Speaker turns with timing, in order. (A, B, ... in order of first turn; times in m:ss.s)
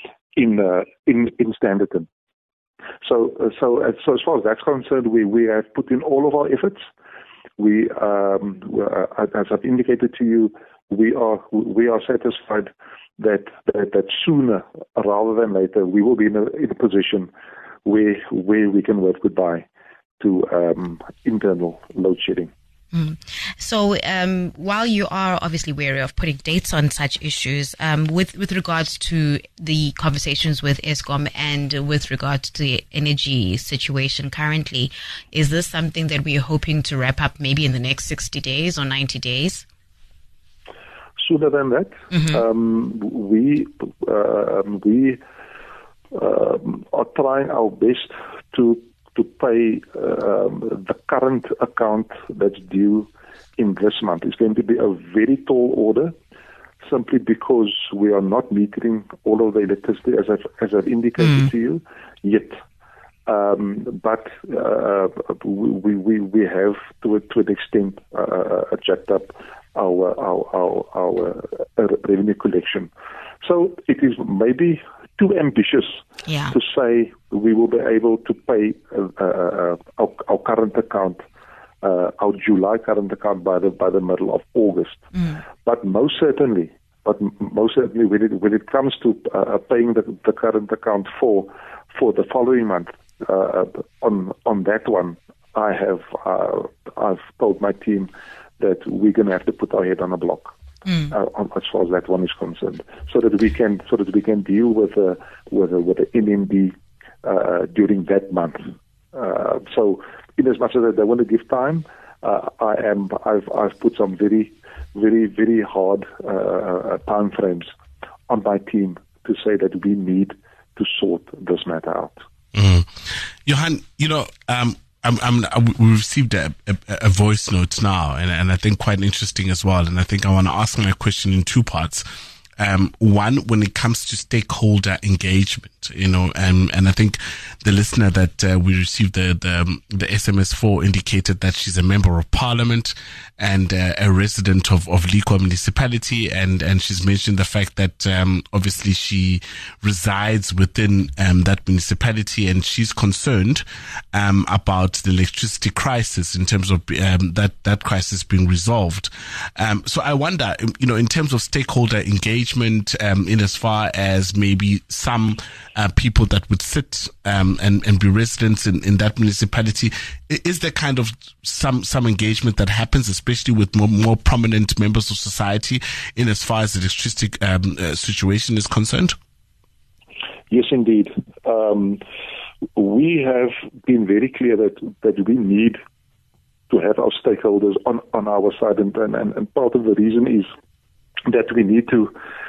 0:00.4-0:02.1 A
0:03.0-0:06.9 A
0:07.6-0:17.3 A
0:17.8-0:19.7 A
0:20.2-0:22.5 A
0:22.9-0:39.7 B
0:41.2-0:45.2 A
0:42.1-0:42.4 B
0:46.1-0:56.2 A
0:56.8-1:02.6 A
1:03.3-1:12.9 A
1:13.4-1:21.2 A
1:16.3-1:16.6 B
1:21.8-1:25.1 A
1:25.6-1:40.6 A
1:41.1-1:57.7 A
1:58.3-2:02.2 A
2:02.5-2:12.0 C
2:12.6-2:59.2 C
3:00.5-3:02.0 A
3:02.8-3:05.8 A
3:06.7-3:10.5 A
3:11.2-3:12.2 A